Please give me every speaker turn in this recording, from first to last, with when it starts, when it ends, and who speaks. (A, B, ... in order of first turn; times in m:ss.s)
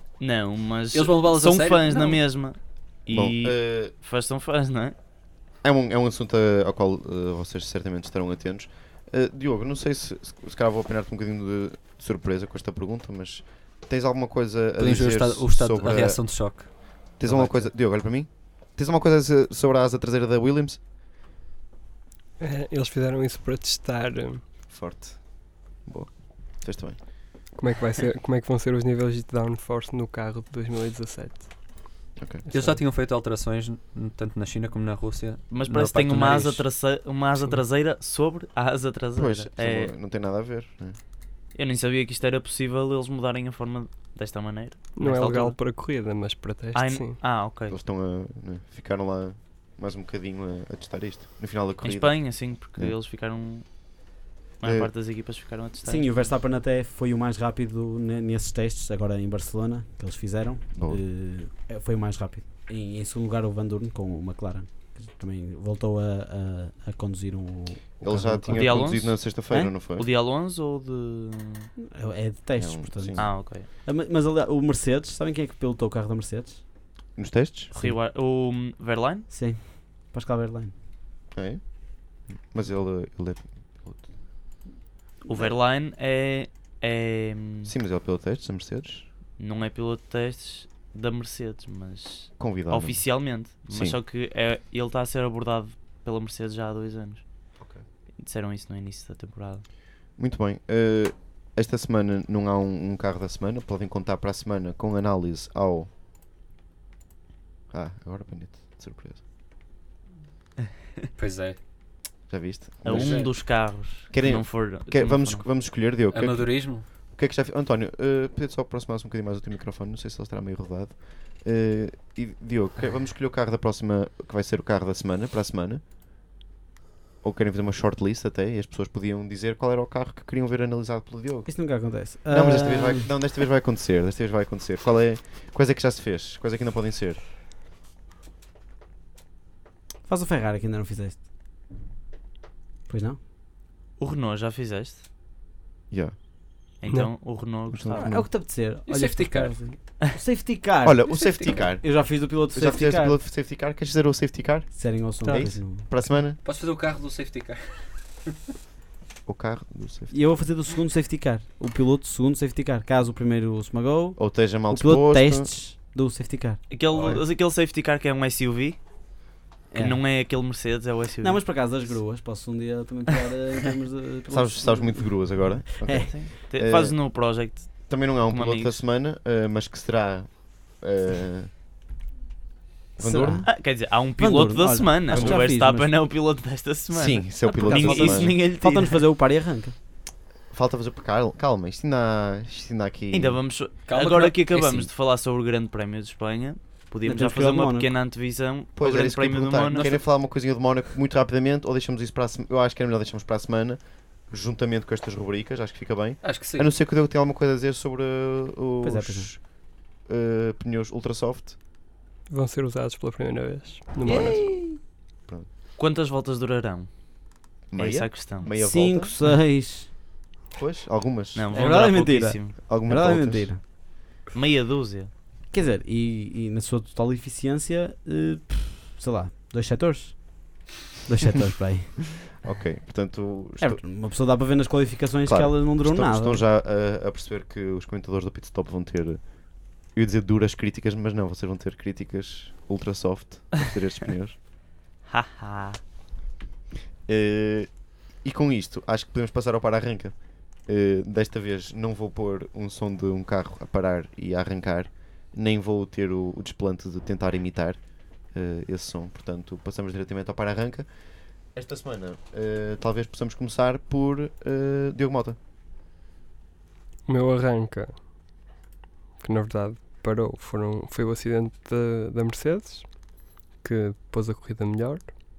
0:00.2-0:04.9 A
0:00.9-0:02.2 B
0:03.1-0:03.9 C
0:05.6-0:16.5 C
0:14.8-0:17.7 B
0:17.2-0:20.8 C
0:22.4-0:24.4 D
0:24.7-0:27.0 C
0:27.6-0:31.6 D
0:32.2-0:32.4 C
0:32.5-0:36.6 B
0:32.5-0:32.8 D
0:35.5-0:39.9 A
0:39.2-0:41.0 C
0:41.6-0:45.6 A
0:45.0-0:47.2 D
0:46.7-0:47.8 A
0:47.7-0:53.0 C
0:51.8-0:53.7 A
0:54.6-0:56.2 A
0:54.6-0:54.9 C
0:55.8-1:09.7 E
1:00.8-1:01.0 C
1:08.0-1:10.1 C
1:08.5-1:11.7 A
1:11.8-1:16.6 E
1:12.6-1:13.3 C
1:13.2-1:13.7 A
1:17.2-1:17.7 C
1:17.7-1:19.3 A
1:19.3-1:20.7 E
1:21.3-1:21.6 C
1:22.3-1:24.1 C
1:25.3-1:27.7 A
1:27.6-1:29.1 C
1:29.4-1:37.2 A
1:32.4-1:33.1 C
1:33.7-1:34.0 C
1:38.2-1:39.6 A
1:40.2-1:45.9 C
1:47.7-1:49.2 C
1:51.2-1:51.6 B
1:52.3-1:53.5 C
1:52.8-1:55.4 A
1:52.9-1:53.4 B
1:54.1-2:05.8 C
1:56.1-1:56.9 B
2:07.2-2:11.6 C
2:11.5-2:13.1 E
2:12.3-2:17.2 C
2:20.1-2:21.2 E
2:22.9-2:23.2 E
2:24.0-2:25.0 A
2:26.8-2:28.1 A
2:27.7-2:28.3 C
2:27.9-2:33.2 E
2:28.9-2:29.6 B
2:30.8-2:36.4 C
2:31.2-2:31.6 B
2:34.7-2:35.9 E
2:36.4-2:38.3 B
2:39.3-2:40.1 C
2:40.1-2:46.6 E
2:44.2-2:45.5 C
2:46.7-2:48.8 A
2:46.9-2:47.2 C
2:49.7-2:50.0 E
2:49.7-2:51.4 A
2:51.2-2:56.1 E
2:54.3-2:57.0 C
2:56.0-2:58.8 A
2:57.8-3:01.5 C
3:03.0-3:03.5 C
3:03.0-3:06.0 E
3:03.5-3:09.0 A
3:05.1-3:05.5 C
3:06.9-3:08.4 C
3:07.5-3:09.8 E
3:10.5-3:13.4 C
3:13.1-3:19.9 A
3:13.9-3:14.9 B
3:17.0-3:17.9 E
3:18.8-3:31.6 C
3:19.7-3:20.1 E
3:26.2-3:26.7 B
3:28.8-3:29.3 E
3:32.3-3:34.4 D
3:34.0-3:34.8 E
3:34.1-3:34.6 C
3:35.8-3:36.9 A
3:37.7-3:39.2 C
3:37.8-3:38.5 A
3:38.6-3:39.9 E
3:40.5-3:41.8 C
3:41.4-3:42.6 A
3:41.5-3:43.6 E
3:42.6-3:43.5 C
3:44.3-3:45.1 A
3:45.5-3:52.0 E
3:52.4-3:53.8 C
3:53.6-3:56.4 E
3:55.3-4:04.4 C
4:05.1-4:05.8 A
4:07.1-4:07.7 C
4:08.2-4:17.8 C
4:18.3-4:20.9 C
4:21.5-4:25.4 C
4:27.1-4:28.1 D
4:29.2-4:33.0 D
4:33.6-4:35.1 D